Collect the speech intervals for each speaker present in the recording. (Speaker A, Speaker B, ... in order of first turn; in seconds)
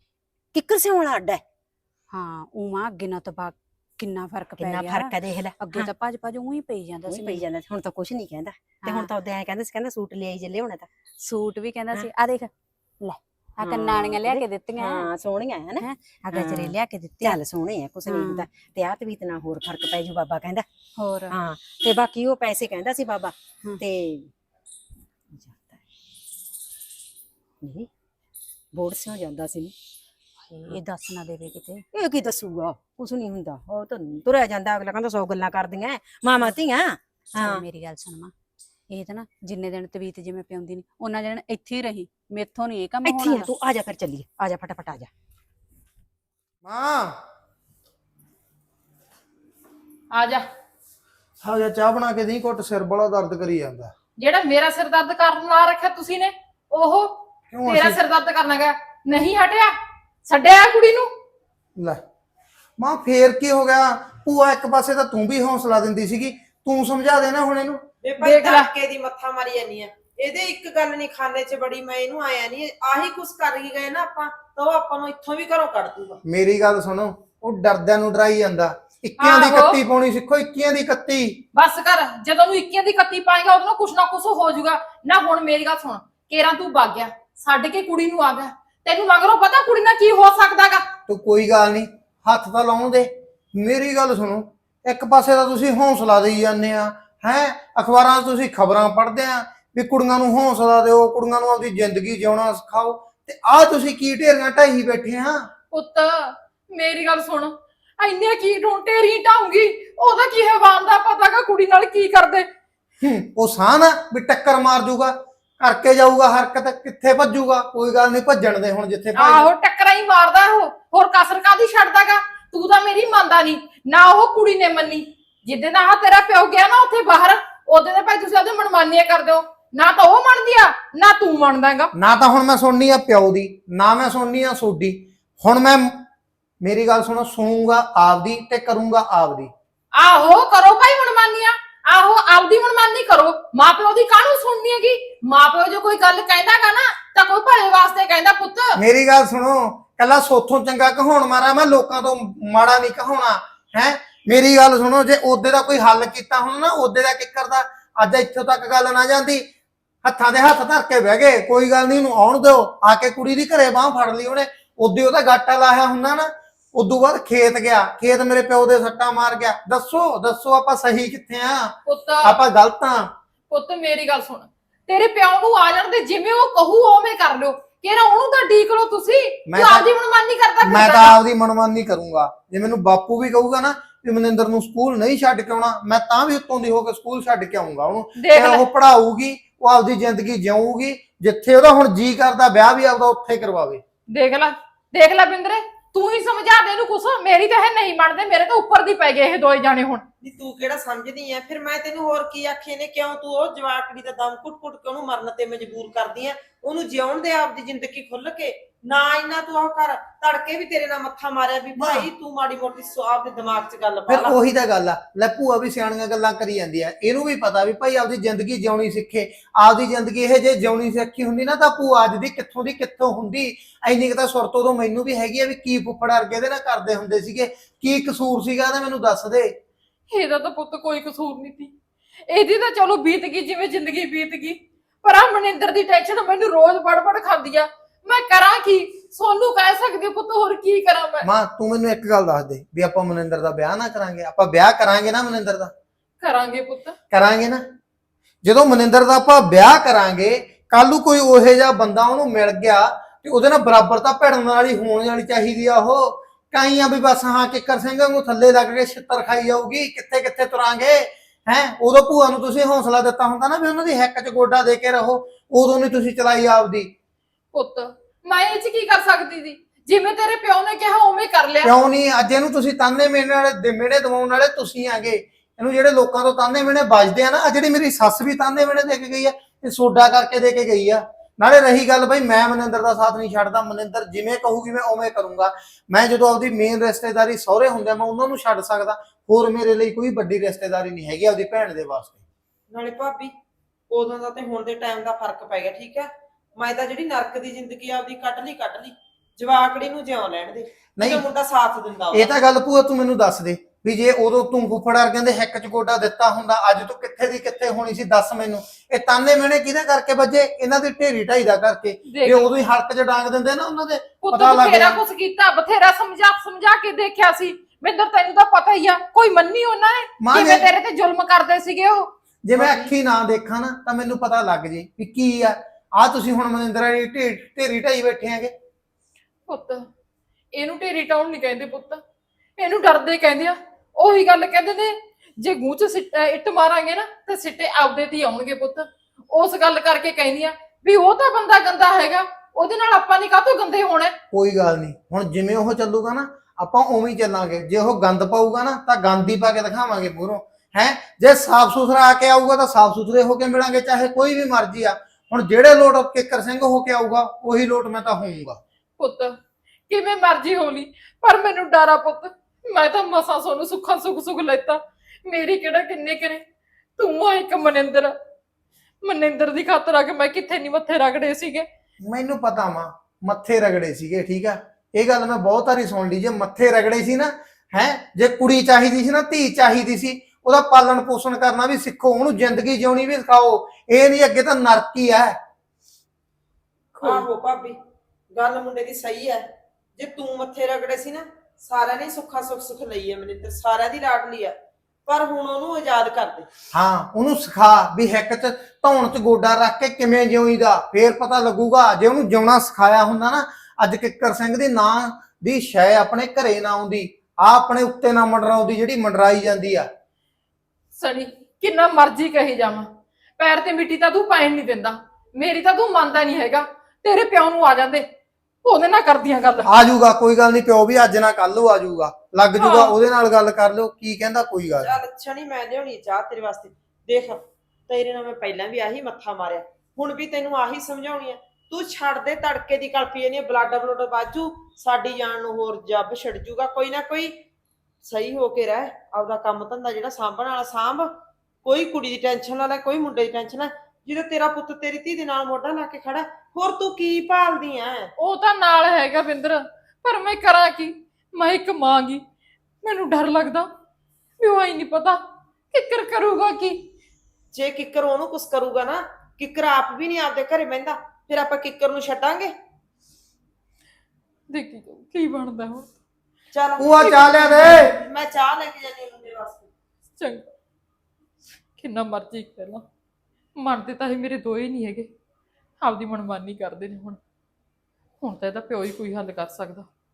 Speaker A: 0.5-1.4, 4.6-5.9, 7.1-10.9, 13.6-20.6, 21.3-24.3, 25.3-25.8, 27.6-27.9, 28.7-29.7, 30.5-30.8, 31.9-37.6, 43.0-45.1
Speaker B: 2.1-7.4, 8.8-9.1, 11.2-12.5, 13.0-15.1, 15.8-17.4, 18.1-18.4, 21.0-21.4, 30.7-31.8, 37.3-38.3, 38.9-43.5
Speaker C: 46.6-47.1, 51.4-53.9, 57.5-58.0, 62.8-67.8, 76.2-81.4, 91.1-105.5, 113.0-119.5, 131.9-135.9, 136.6-139.5, 148.8-159.4, 160.0-173.1, 179.5-179.9, 180.6-193.8, 211.8-212.1, 214.1-229.5, 241.2-245.7, 247.1-247.6, 248.4-266.9, 271.6-292.2, 301.0-301.2, 302.1-315.0, 320.2-320.6, 322.4-328.5, 344.3-358.6, 372.0-385.4, 396.7-409.9, 419.6-424.9, 466.8-467.9
Speaker D: 50.1-50.4, 54.2-59.7, 60.2-61.1, 68.2-68.7, 79.2-79.8, 81.5-90.8, 105.7-112.5, 119.1-131.9, 140.0-148.8, 171.9-172.4, 173.5-181.2, 188.2-188.6, 194.1-200.0, 230.1-231.7, 232.3-241.3, 246.2-247.0, 267.5-271.8, 312.1-312.5, 314.2-322.9, 329.5-329.8, 330.5-332.0, 332.6-344.1, 359.0-359.4, 359.9-366.4, 367.0-368.1, 369.0-371.6, 411.0-418.1, 418.6-419.7, 422.6-422.9, 448.2-452.2, 452.8-453.7, 454.4-456.8, 464.5-465.9, 467.0-467.4, 470.2-470.5, 471.8-472.9, 473.6-475.1, 475.8-477.2, 478.2-479.9
Speaker E: 68.0-76.2, 200.2-214.4, 292.7-293.3, 293.9-302.3, 386.9-387.8, 388.3-394.6, 395.1-396.5, 424.8-437.3, 438.0-441.1, 441.6-448.1, 457.5-462.5, 466.5-469.7